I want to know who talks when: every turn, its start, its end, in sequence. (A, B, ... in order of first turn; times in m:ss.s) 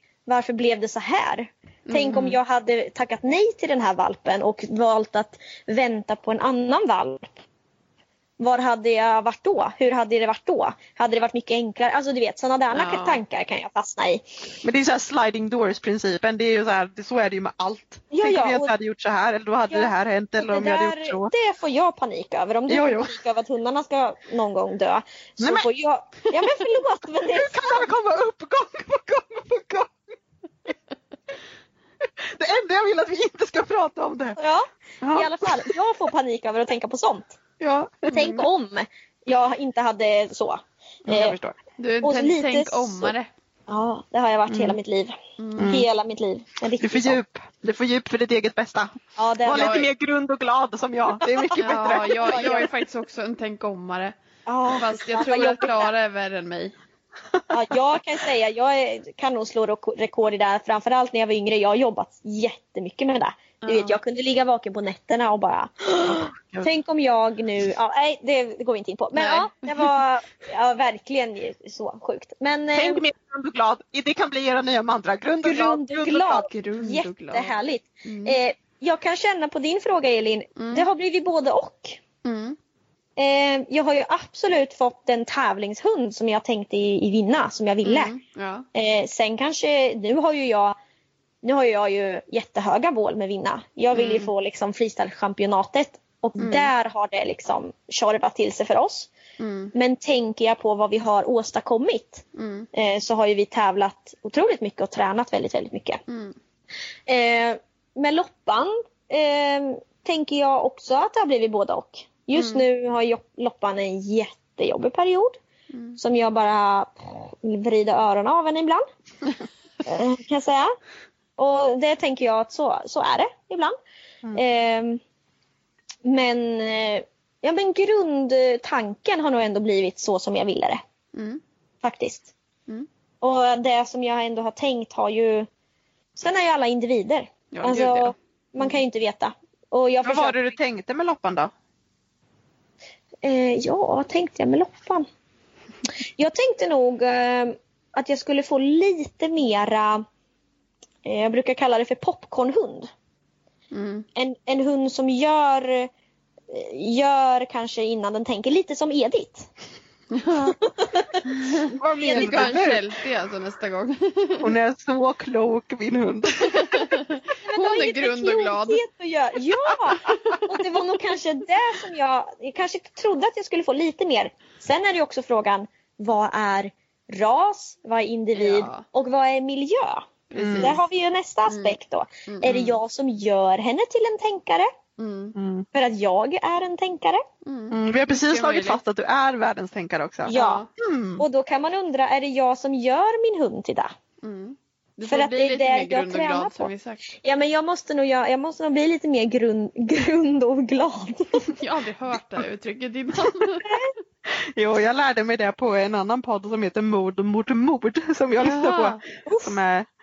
0:00.3-0:07.3 A
0:01.9-0:02.4 B
0:08.4-0:14.2 A
0:12.7-0:13.2 B
0:14.6-0:21.3 C
0:18.1-0:18.7 A
0:19.7-0:27.9 A
0:22.7-0:23.2 C
0:25.4-0:25.7 C
0:27.3-0:30.1 C
0:32.2-0:34.4 C
0:34.4-0:37.4 A
0:35.0-0:35.5 C
0:37.6-0:38.2 C
0:38.1-0:41.4 A
0:38.1-0:38.4 B
0:41.1-0:41.6 C
0:41.8-0:43.3 B
0:42.0-0:43.1 A
0:43.7-0:47.2 A
0:44.5-0:44.8 C
0:45.4-0:45.8 B
0:45.6-0:45.9 C
0:46.8-0:52.7 C
0:49.2-0:49.8 A
0:49.5-0:49.9 B
0:51.4-0:52.7 A
0:51.6-0:54.1 B
0:54.5-0:55.9 A
0:54.7-0:56.7 B
0:57.5-1:13.0 A
1:03.6-1:04.0 B
1:06.0-1:06.7 C
1:09.1-1:10.0 B
1:12.7-1:16.5 C
1:15.4-1:22.0 A
1:16.4-1:18.4 B
1:20.6-1:20.9 B
1:22.2-1:22.6 B
1:23.2-1:28.1 A
1:27.8-1:28.6 B
1:28.7-1:30.8 A
1:31.4-1:39.1 A
1:33.9-1:34.3 B
1:36.4-1:36.7 B
1:39.4-1:39.7 B
1:39.7-1:42.2 A
1:42.4-1:42.7 B
1:42.7-1:46.0 A
1:46.1-1:46.4 B
1:47.1-1:55.4 A
1:52.4-1:52.6 B
1:55.7-1:56.0 B
1:56.0-1:58.8 A
1:59.8-2:00.7 A
2:01.4-2:03.8 A
2:04.3-2:05.0 A
2:06.0-2:10.8 A
2:11.2-2:11.4 B
2:11.8-2:12.3 A
2:13.2-2:15.5 A
2:16.2-2:20.4 A
2:17.5-2:18.8 B
2:20.0-2:21.5 C
2:23.2-2:25.1 A
2:26.2-2:30.0 A
2:31.0-2:32.9 A
2:33.7-2:34.1 B
2:34.2-2:35.9 A
2:36.5-2:39.5 A
2:40.1-2:40.6 B
2:40.4-2:42.6 A
2:41.4-2:44.5 B
2:41.8-2:42.9 C
2:44.4-2:46.8 C
2:46.5-2:48.8 B
2:47.4-3:04.7 A
2:58.3-2:58.8 B
3:00.3-3:00.8 B
3:00.4-3:00.8 C
3:01.5-3:01.8 B
3:02.3-3:02.8 B
3:05.0-3:05.4 B
3:05.4-3:05.7 C
3:05.7-3:07.2 A
3:07.4-3:08.8 B
3:07.7-3:11.2 C
3:10.3-3:10.6 A
3:10.3-3:10.7 B
3:11.2-3:13.9 A
3:14.2-3:17.1 B
3:15.0-3:21.6 A
3:21.6-3:23.7 B
3:23.6-3:23.9 A
3:24.6-3:29.9 C
3:28.4-3:29.0 B
3:29.3-3:29.6 A